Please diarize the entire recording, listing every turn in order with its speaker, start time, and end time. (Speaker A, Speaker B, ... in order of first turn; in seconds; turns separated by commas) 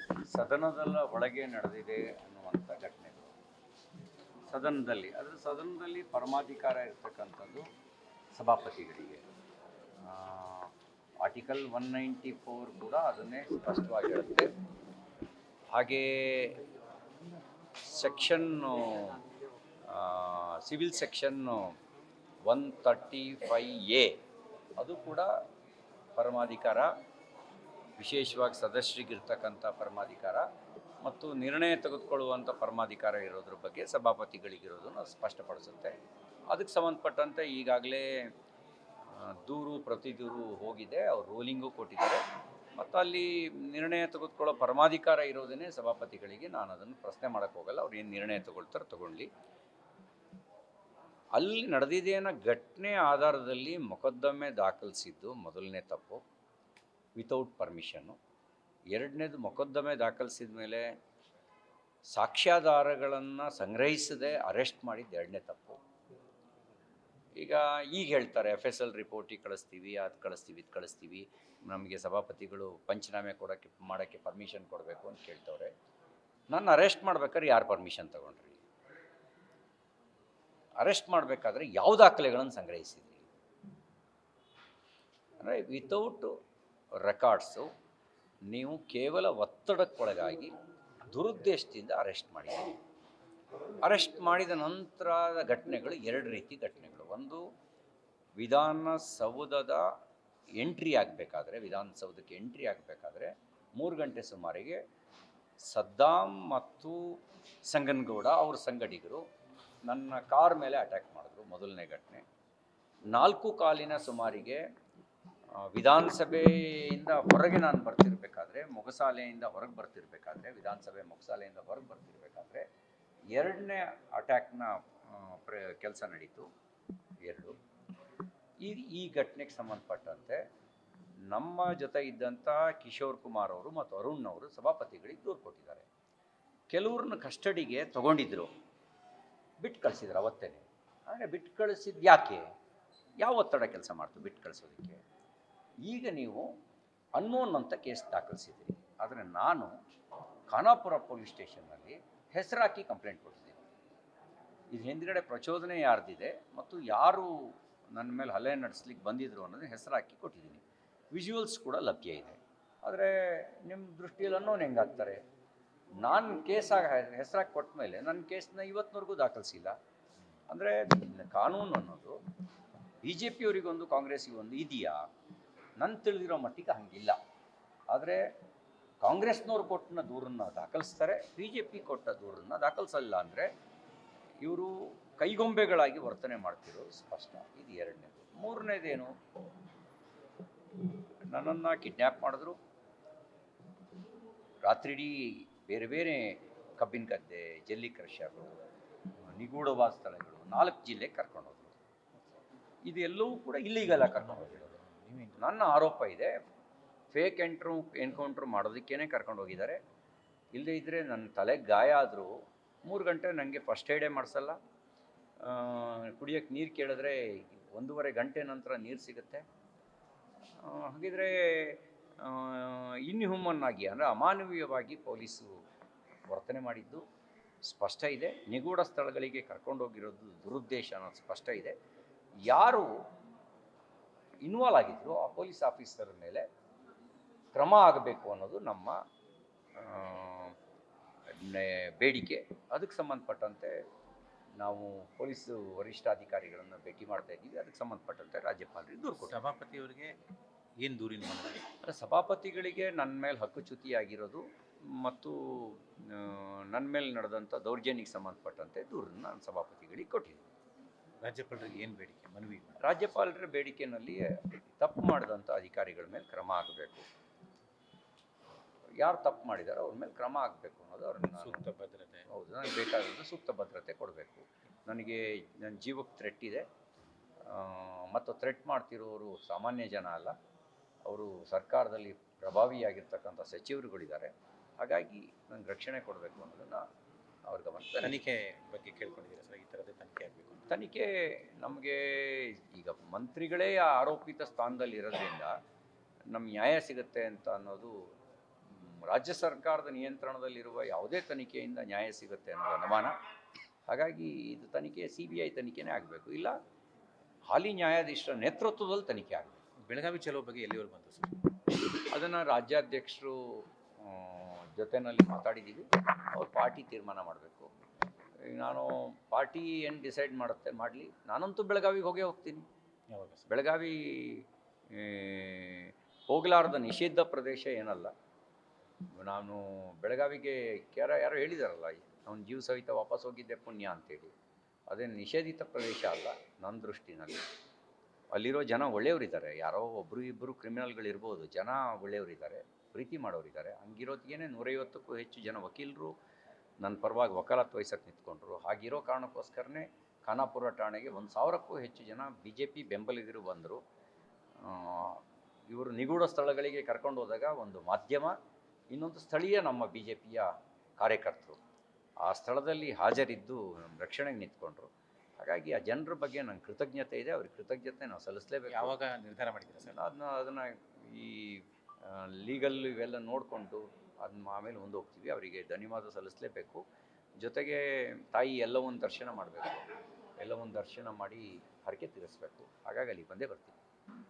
Speaker A: 0.3-3.3, Speaker A: 4.5-7.7, Speaker A: 8.3-9.2, Speaker A: 10.0-14.5, Speaker A: 15.7-16.6, Speaker A: 17.8-19.2, Speaker A: 19.9-21.8, Speaker A: 22.5-24.2, Speaker A: 24.8-25.3, Speaker A: 26.2-26.9, Speaker A: 28.0-30.4, Speaker A: 31.0-36.0, Speaker A: 36.5-38.1, Speaker A: 39.1-42.2, Speaker A: 42.8-49.3, Speaker A: 51.4-56.2, Speaker A: 57.2-58.2, Speaker A: 58.9-60.9, Speaker A: 62.1-65.8, Speaker A: 67.4-75.7, Speaker A: 76.5-78.6, Speaker A: 80.8-83.3, Speaker A: 85.4-86.3, Speaker A: 87.0-87.7, Speaker A: 88.5-92.8, Speaker A: 93.8-97.4, Speaker A: 98.4-99.9, Speaker A: 100.6-104.8, Speaker A: 105.7-109.2, Speaker A: 109.8-112.2, Speaker A: 113.1-114.6, Speaker A: 115.6-122.7, Speaker A: 123.3-126.5, Speaker A: 127.2-127.5, Speaker A: 128.6-130.4, Speaker A: 131.3-135.9, Speaker A: 136.7-138.5, Speaker A: 139.6-142.4, Speaker A: 143.2-145.0, Speaker A: 145.8-146.5, Speaker A: 147.2-149.7, Speaker A: 150.5-153.6, Speaker A: 154.7-165.2, Speaker A: 166.0-169.8, Speaker A: 170.5-172.2, Speaker A: 173.0-175.1, Speaker A: 175.8-177.2, Speaker A: 177.9-178.2, Speaker A: 179.0-183.5, Speaker A: 184.4-189.1, Speaker A: 191.3-192.6, Speaker A: 194.6-198.5, Speaker A: 199.2-201.8, Speaker A: 202.9-204.8, Speaker B: 203.9-205.4, Speaker A: 205.4-206.3, Speaker A: 207.1-209.8, Speaker A: 210.5-214.6, Speaker A: 215.4-219.4, Speaker A: 220.6-225.5, Speaker A: 226.3-227.0, Speaker A: 227.6-231.7, Speaker A: 232.5-232.9, Speaker A: 234.4-236.4, Speaker A: 237.5-239.0, Speaker A: 239.8-240.6, Speaker A: 241.3-243.7, Speaker A: 244.6-249.4, Speaker B: 249.2-250.1, Speaker B: 250.8-251.7, Speaker A: 251.8-260.5, Speaker B: 261.2-262.8, Speaker A: 262.8-267.1, Speaker A: 269.0-271.7, Speaker B: 271.3-272.3, Speaker A: 272.3-276.6, Speaker A: 277.4-280.3, Speaker A: 281.1-286.8, Speaker A: 287.5-288.2, Speaker B: 288.0-290.7, Speaker A: 290.7-295.5, Speaker A: 296.3-298.1, Speaker A: 298.7-303.1, Speaker A: 303.9-306.6, Speaker A: 307.5-309.6, Speaker B: 309.9-311.4, Speaker A: 312.1-317.7, Speaker A: 318.4-322.6, Speaker B: 323.1-323.5, Speaker A: 323.5-328.1, Speaker A: 329.2-334.3, Speaker A: 334.9-337.4, Speaker A: 338.3-346.1, Speaker A: 346.8-353.8, Speaker A: 354.6-358.4, Speaker A: 358.9-361.6, Speaker A: 362.2-369.0, Speaker B: 368.7-370.0, Speaker A: 369.9-376.8, Speaker A: 377.4-379.8, Speaker A: 380.4-383.8